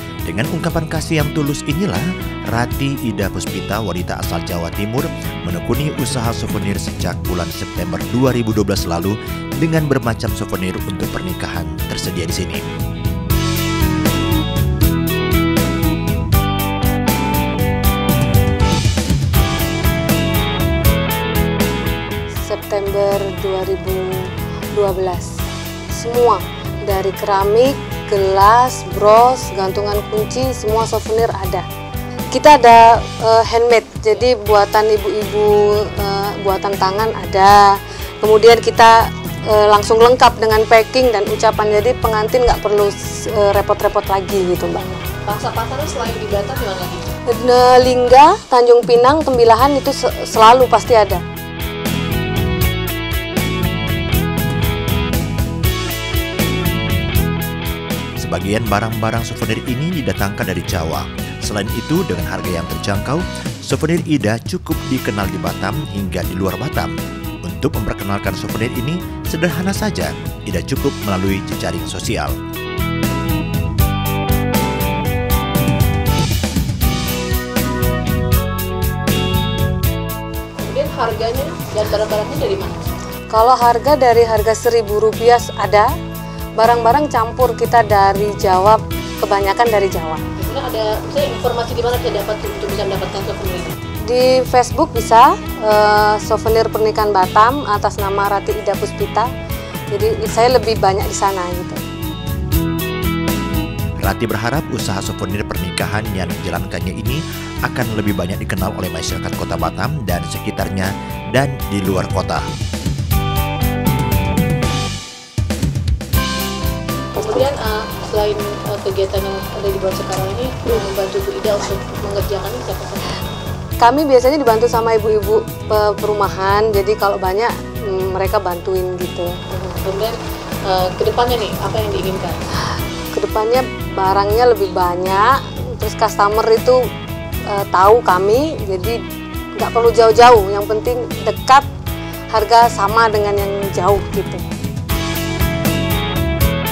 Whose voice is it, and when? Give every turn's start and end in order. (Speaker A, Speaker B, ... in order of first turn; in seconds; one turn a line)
Speaker A: 0.2-12.7
Speaker B: 22.3-31.6
Speaker B: 32.3-45.1
Speaker C: 45.2-47.1
Speaker B: 47.3-51.2
Speaker A: 58.2-72.3
Speaker C: 80.6-82.9
Speaker B: 83.3-85.9
Speaker B: 86.5-90.2
Speaker C: 90.4-93.8
Speaker B: 94.1-99.3
Speaker B: 99.9-101.8
Speaker A: 104.0-112.5
Speaker C: 117.1-123.2
Speaker B: 123.8-129.4
Speaker C: 129.5-130.1
Speaker C: 130.7-132.4
Speaker B: 133.1-136.8
Speaker B: 137.5-139.0
Speaker B: 139.5-141.7
Speaker B: 142.3-144.4